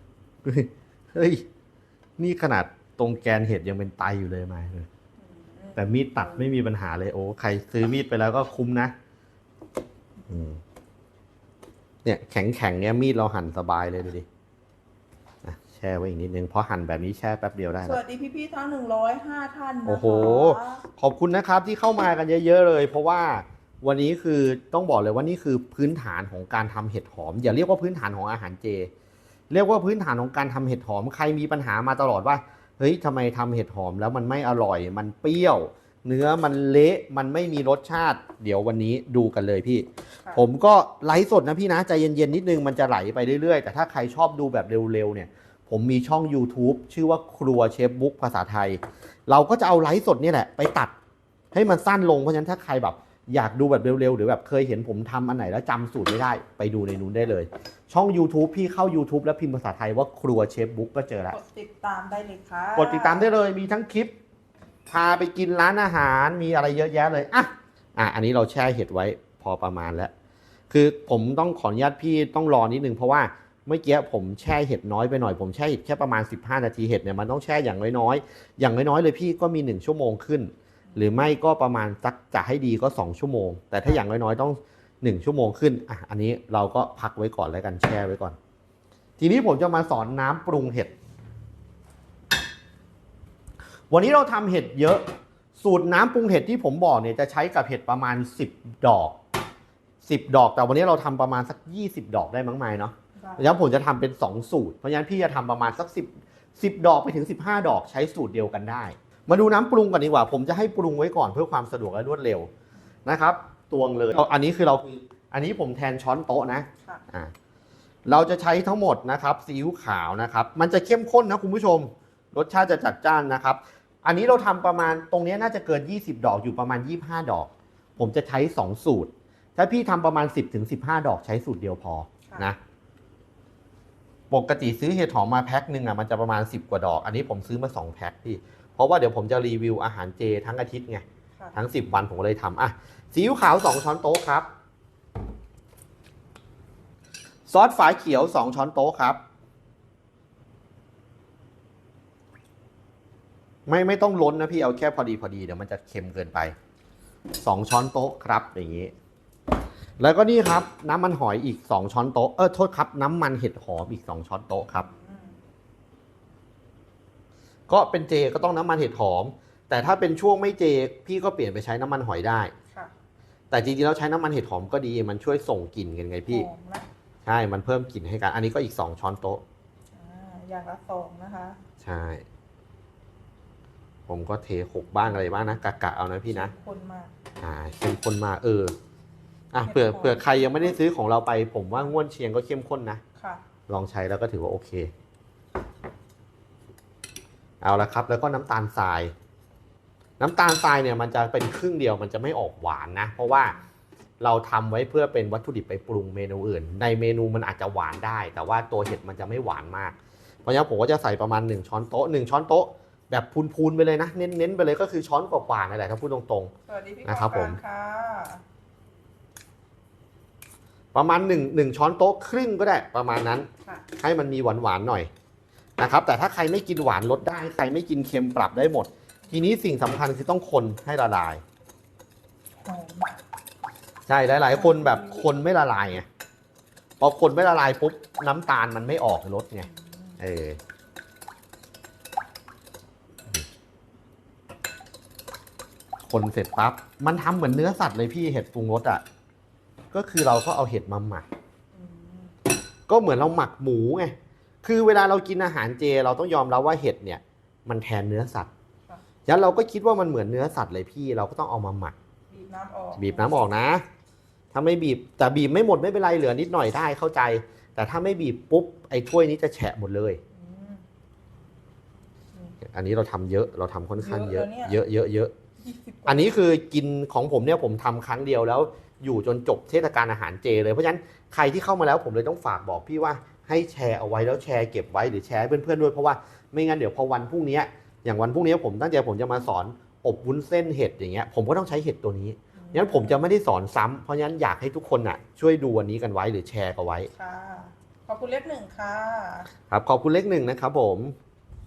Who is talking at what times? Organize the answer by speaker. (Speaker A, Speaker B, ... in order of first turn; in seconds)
Speaker A: 0.5-1.4, 2.2-4.9, 5.8-8.9, 10.3-10.6, 12.1-14.2, 15.4-18.0, 19.9-28.9, 29.5-50.9, 51.5-61.4, 62.8-64.1, 64.9-70.1, 70.7-88.4, 89.2-90.9, 93.9-95.0, 95.6-99.2, 100.0-112.5, 113.1-117.3, 118.1-132.6, 134.3-144.5, 147.5-149.2, 153.7-156.5, 157.4-158.9, 160.0-164.9, 167.7-172.5, 173.5-176.5, 177.2-179.4, 181.8-182.2, 184.1-186.5, 187.4-188.8, 189.5-193.0, 193.7-194.9, 197.6-199.1, 200.2-203.6, 204.2-216.5, 217.1-217.6, 220.9-225.1, 225.8-231.4, 234.1-236.1, 237.0-239.7, 240.2-240.6, 246.1-249.0, 249.9-251.3, 252.9-258.5, 259.3-261.9, 263.0-263.8, 264.5-270.2, 272.6-275.3, 276.1-297.1, 299.7-301.2
Speaker B: 5.2-6.5, 17.8-20.8, 61.3-63.3, 80.9-81.2, 103.2-103.5, 164.8-165.4, 176.3-176.9, 179.9-181.6, 185.0-185.6, 186.3-187.1, 189.6-190.8, 193.2-193.4, 203.3-203.6, 216.7-218.4, 232.6-233.2, 234.5-235.3, 239.7-240.2, 251.7-252.3, 262.3-263.5, 270.3-270.9, 274.0-274.8, 275.6-276.4, 292.6-293.3, 297.1-299.5